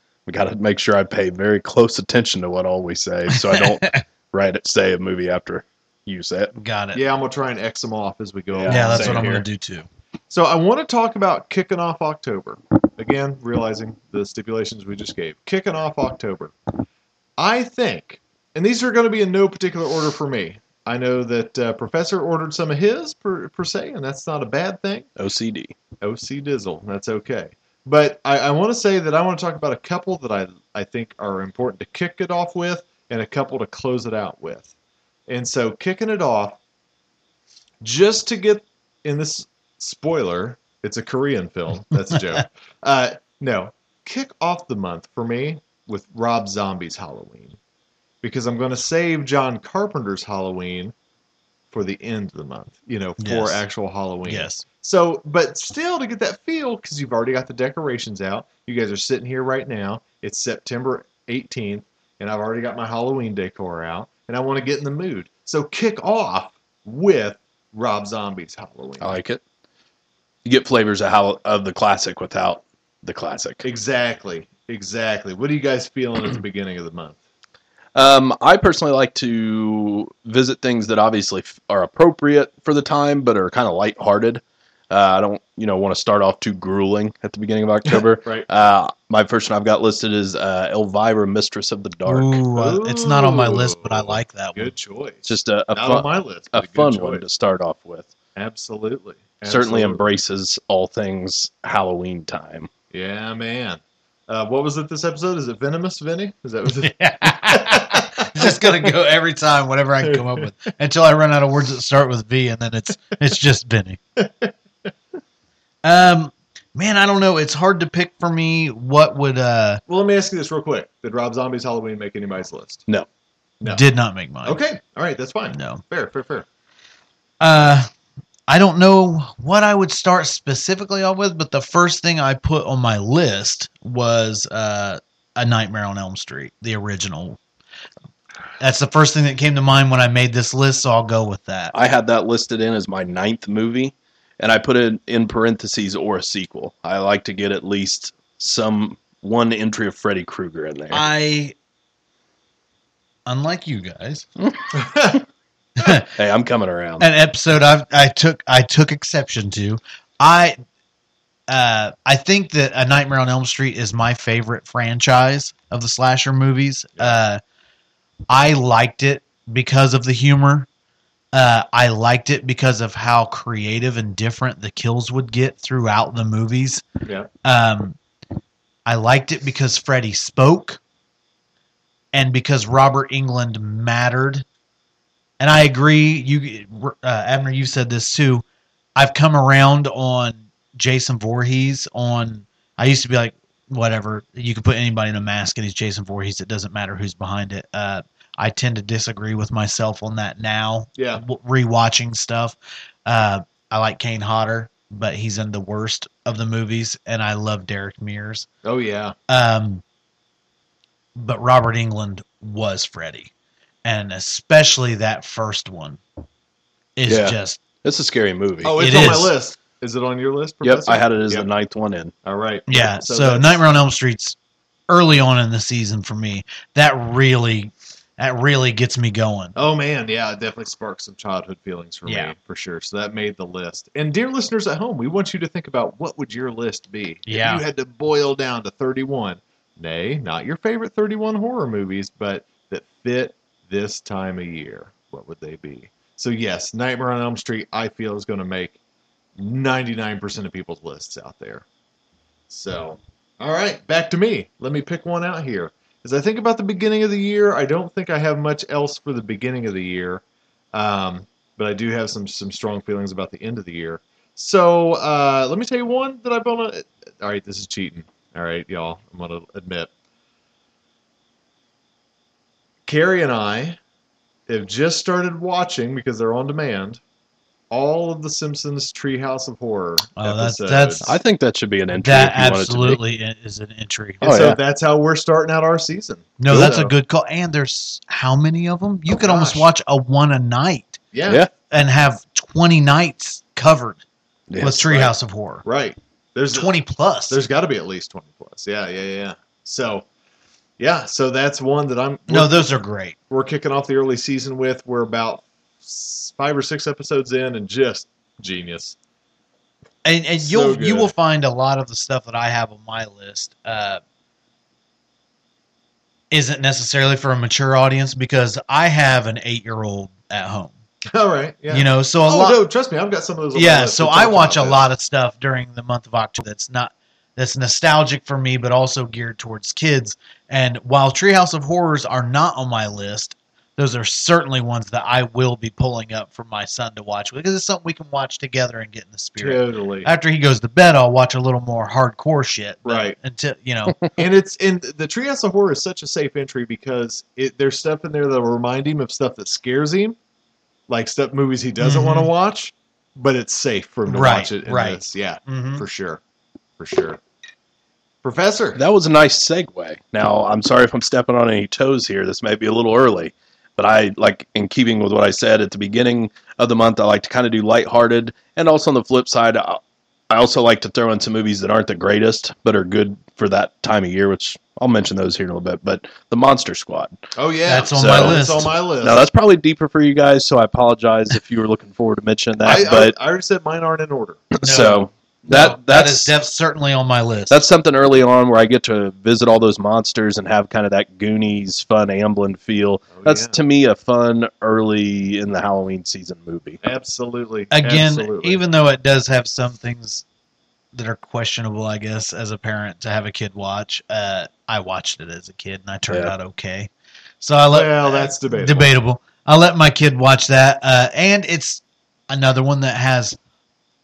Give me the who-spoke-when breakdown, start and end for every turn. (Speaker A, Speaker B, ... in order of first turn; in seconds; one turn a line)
Speaker A: 0.2-6.5
Speaker B: 3.3-4.0
Speaker B: 6.5-7.0
Speaker C: 6.9-9.3
Speaker A: 8.5-9.4
Speaker B: 8.7-9.9
Speaker C: 10.3-16.5
Speaker C: 17.4-25.1
Speaker A: 25.2-25.7
Speaker C: 26.0-34.7
Speaker C: 35.3-36.6
Speaker C: 37.8-47.6
Speaker C: 48.2-50.9
Speaker C: 51.7-69.2
Speaker B: 53.2-53.6
Speaker B: 54.3-54.6
Speaker A: 69.0-69.4
Speaker A: 70.4-73.6
Speaker C: 73.6-77.2
Speaker A: 77.9-92.4
Speaker B: 92.0-94.7
Speaker C: 92.5-97.2
Speaker A: 95.2-98.1
Speaker C: 98.3-100.0
Speaker A: 99.5-102.7
Speaker C: 102.9-108.5
Speaker B: 106.8-114.0
Speaker C: 110.0-110.5
Speaker C: 114.2-114.5
Speaker B: 115.8-119.8
Speaker C: 119.9-122.8
Speaker B: 123.6-124.6
Speaker C: 124.4-126.4
Speaker B: 125.5-125.8
Speaker B: 127.4-127.9
Speaker B: 128.5-137.4
Speaker B: 138.6-141.7
Speaker A: 141.7-151.1
Speaker B: 150.9-151.5
Speaker B: 153.2-154.2
Speaker A: 154.4-155.2
Speaker C: 154.7-155.2
Speaker B: 155.8-156.1
Speaker A: 156.1-157.1
Speaker B: 157.0-160.6
Speaker B: 161.5-167.4
Speaker B: 168.3-170.7
Speaker B: 171.3-176.8
Speaker B: 177.4-178.0
Speaker B: 178.8-180.8
Speaker B: 182.1-184.4
Speaker B: 185.4-188.4
Speaker B: 188.9-208.5
Speaker C: 201.0-201.2
Speaker C: 208.6-209.1
Speaker B: 209.3-209.8
Speaker B: 211.2-213.3
Speaker B: 213.8-216.0
Speaker B: 216.9-217.6
Speaker A: 217.1-219.1
Speaker C: 218.6-221.5
Speaker B: 218.8-219.3
Speaker A: 220.6-222.1
Speaker C: 222.2-223.7
Speaker B: 222.7-224.4
Speaker B: 224.9-229.5
Speaker C: 229.6-248.8
Speaker B: 232.1-232.3
Speaker B: 237.3-237.6
Speaker C: 249.4-251.6
Speaker C: 252.5-269.9
Speaker C: 272.9-273.8
Speaker C: 274.5-277.0
Speaker C: 277.7-281.1
Speaker B: 280.2-281.1
Speaker A: 281.0-283.0
Speaker B: 282.0-284.6
Speaker A: 284.2-284.6
Speaker C: 284.2-286.9
Speaker B: 286.4-291.0
Speaker A: 286.5-286.8
Speaker C: 289.1-289.7
Speaker C: 291.1-291.4
Speaker B: 291.7-294.0
Speaker A: 294.5-295.0
Speaker B: 294.6-295.6
Speaker C: 295.6-296.7
Speaker B: 296.5-297.4
Speaker C: 297.3-300.0
Speaker C: 300.8-302.6
Speaker B: 302.3-303.1
Speaker C: 303.3-308.9
Speaker B: 310.0-314.0
Speaker C: 310.4-311.1
Speaker B: 316.3-320.8
Speaker C: 321.1-324.8
Speaker B: 321.7-322.6
Speaker B: 323.5-344.0
Speaker C: 339.4-340.1
Speaker C: 342.8-343.1
Speaker C: 344.1-350.1
Speaker C: 350.9-356.2
Speaker B: 351.8-352.3
Speaker B: 354.1-355.8
Speaker C: 356.8-357.2
Speaker C: 358.2-358.8
Speaker A: 358.8-377.2
Speaker C: 377.4-379.2
Speaker B: 377.7-378.7
Speaker A: 377.9-378.4
Speaker A: 379.0-383.1
Speaker C: 382.6-384.6
Speaker A: 384.6-386.3
Speaker B: 384.6-387.6
Speaker A: 387.5-396.8
Speaker C: 393.1-393.6
Speaker C: 396.8-398.6
Speaker B: 397.7-400.2
Speaker B: 400.9-406.9
Speaker A: 406.1-406.3
Speaker B: 407.4-413.4
Speaker C: 407.7-408.9